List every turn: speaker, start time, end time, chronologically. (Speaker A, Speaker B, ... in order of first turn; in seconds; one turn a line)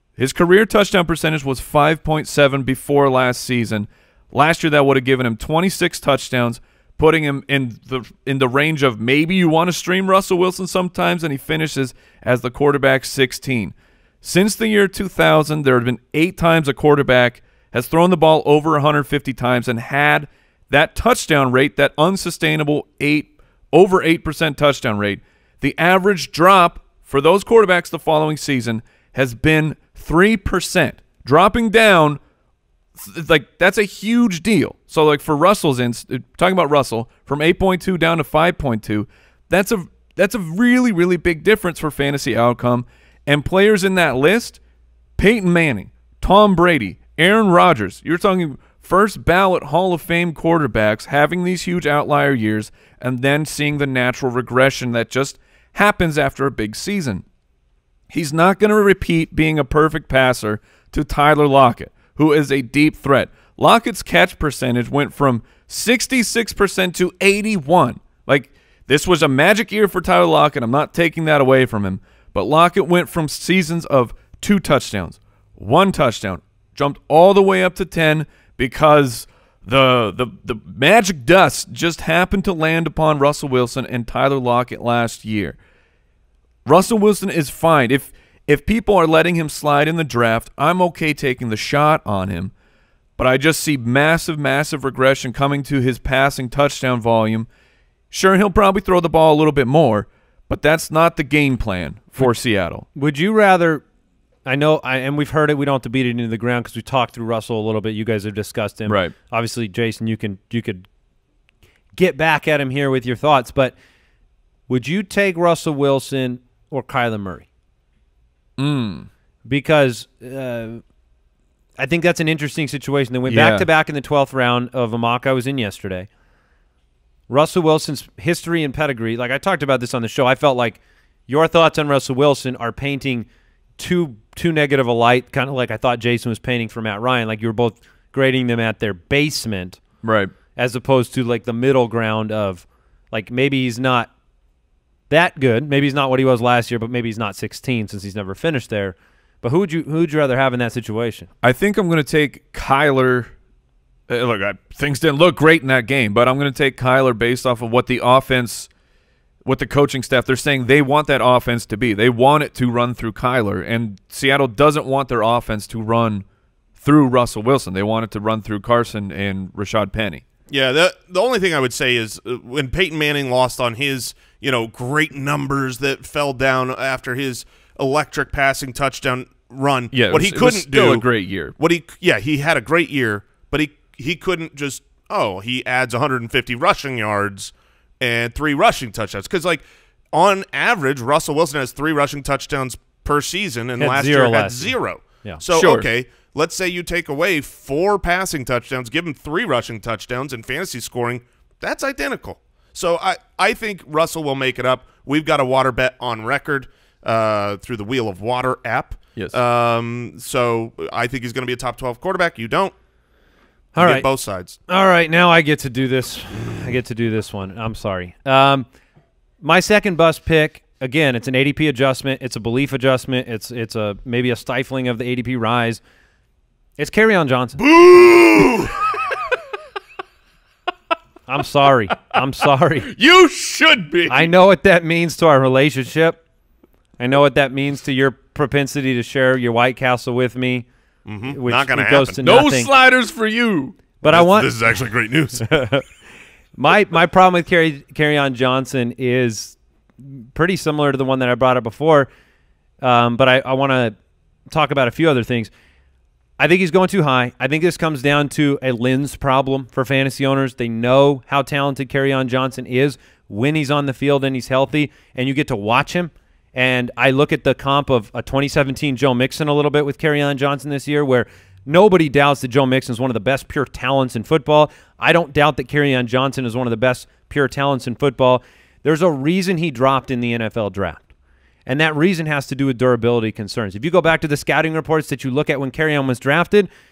Speaker A: 0.2-32.2
Speaker A: 33.0-44.6
Speaker A: 45.2-57.2
Speaker A: 58.1-85.6
Speaker A: 86.7-92.5
Speaker A: 93.2-97.5
Speaker A: 98.1-102.8
Speaker B: 103.0-103.8
Speaker B: 104.5-110.9
Speaker A: 108.9-109.1
Speaker B: 112.0-113.7
Speaker B: 114.7-117.5
Speaker A: 118.6-119.1
Speaker B: 119.5-120.8
Speaker B: 121.8-126.1
Speaker A: 123.3-123.7
Speaker B: 127.3-133.3
Speaker B: 133.8-139.8
Speaker A: 140.0-140.3
Speaker B: 140.6-144.1
Speaker B: 145.1-151.3
Speaker A: 151.4-153.3
Speaker A: 154.1-158.7
Speaker A: 159.4-166.2
Speaker A: 166.8-170.2
Speaker C: 170.5-181.1
Speaker A: 179.9-181.6
Speaker C: 181.6-212.7
Speaker B: 193.8-194.7
Speaker A: 195.5-195.9
Speaker B: 213.7-214.1
Speaker C: 213.8-214.6
Speaker B: 214.7-218.7
Speaker B: 219.4-225.8
Speaker B: 226.8-227.6
Speaker A: 227.6-228.8
Speaker B: 231.3-232.9
Speaker A: 232.9-234.3
Speaker B: 234.1-236.2
Speaker B: 237.0-240.7
Speaker C: 241.1-242.2
Speaker B: 241.3-242.7
Speaker A: 242.2-243.8
Speaker B: 244.0-244.5
Speaker C: 244.1-245.5
Speaker B: 245.4-245.8
Speaker B: 246.6-252.1
Speaker B: 252.8-253.9
Speaker B: 254.5-255.5
Speaker B: 256.4-281.0
Speaker B: 281.7-286.7